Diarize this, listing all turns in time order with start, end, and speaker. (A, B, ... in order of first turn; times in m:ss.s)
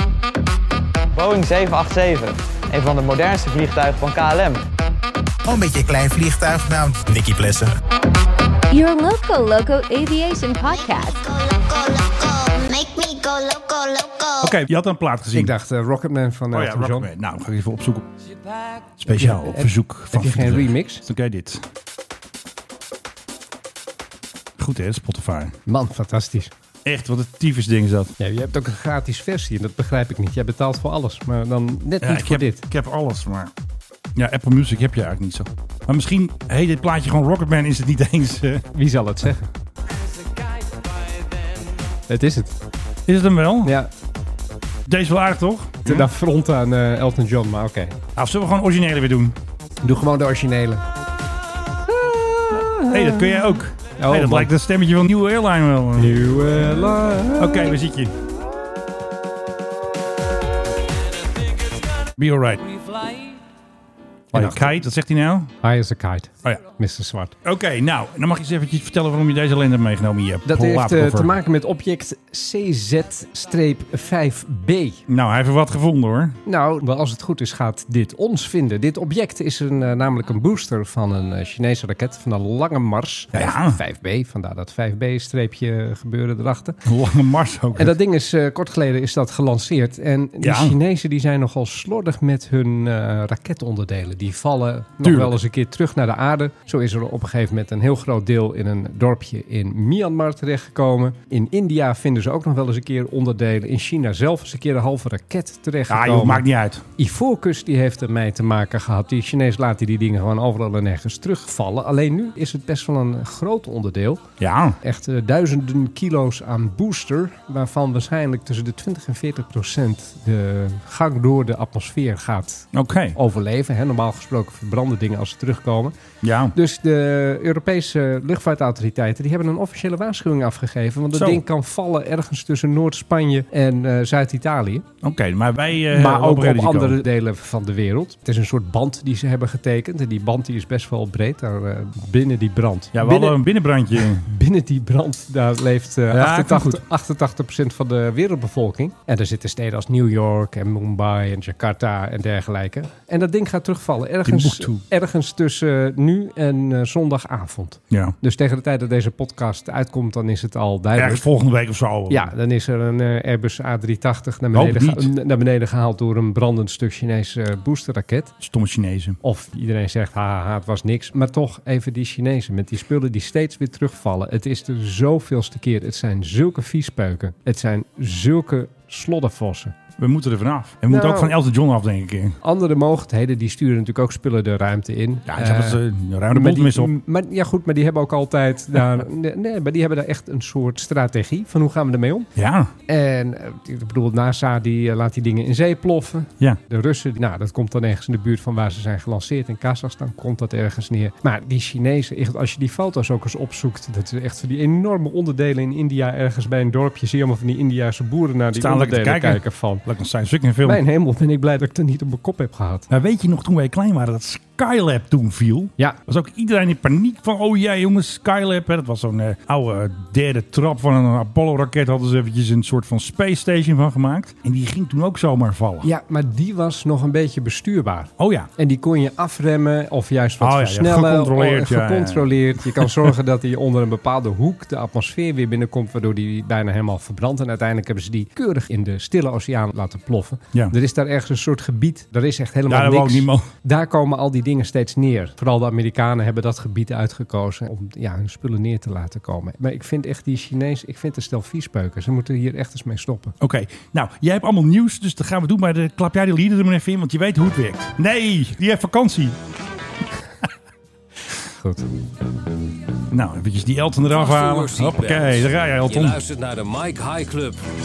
0:01.1-0:04.6 A
0:05.4-0:07.8 B
0:08.7-0:11.2 C
0:10.6-0:14.5 D
0:14.4-0:15.5 E
0:15.3-0:17.1 F
0:16.5-0:18.0 E
0:19.0-0:21.6 E
0:19.1-0:21.0 F
0:24.6-0:25.6 E
0:25.7-0:26.5 F
0:26.8-0:28.2 E
0:28.2-0:32.6 F
0:32.0-0:33.5 E
0:34.2-0:38.6 E
0:38.7-0:39.4 F
0:42.1-0:42.6 F
0:43.1-0:43.8 E
0:43.6-0:43.9 F
0:44.9-0:46.1 E
0:45.8-0:48.0 F
0:48.2-0:49.4 E
0:49.8-0:50.8 F
0:52.0-0:53.4 F
0:52.7-0:58.1 E
0:54.0-0:54.5 F
0:56.0-0:57.7 F
1:02.2-1:02.8 E
1:04.3-1:05.5 E
1:04.3-1:04.7 F
1:05.6-1:07.3 F
1:07.4-1:11.4 E
1:10.4-1:15.0 F
1:15.1-1:16.4 E
1:16.5-1:26.8 F
1:23.3-1:23.8 E
1:26.8-1:28.0 E
1:27.8-1:46.4 F
1:30.4-1:30.8 E
1:35.0-1:35.4 E
1:45.9-1:46.9 E
1:47.0-1:54.2 F
1:54.4-1:54.8 E
1:54.8-2:05.9 F
2:02.7-2:03.2 E
2:06.2-2:06.6 E
2:06.5-2:14.9 F
2:11.1-2:11.4 E
2:15.0-2:17.0 E
2:15.9-2:23.4 F
2:22.9-2:24.3 E
2:24.0-2:41.3 F
2:26.1-2:26.8 E
2:34.2-2:34.8 E
2:37.9-2:38.2 E
2:41.0-2:42.3 E
2:42.1-2:48.3 F
2:44.5-2:45.1 E
2:48.4-2:49.2 E
2:49.2-2:59.8 F
3:00.0-3:02.4 E
3:00.9-3:01.4 F
3:02.4-3:12.3 F
3:05.3-3:06.9 E
3:12.4-3:12.7 E
3:12.9-3:29.8 F
3:28.5-3:30.8 E
3:30.6-3:32.9 F
3:32.9-3:45.9 E
3:45.8-4:13.4 F
3:48.2-3:48.5 E
3:50.4-3:53.1 E
4:02.7-4:03.5 E
4:13.4-4:19.4 E
4:21.6-4:21.9 F
4:23.1-4:26.2 E
4:24.1-4:27.6 G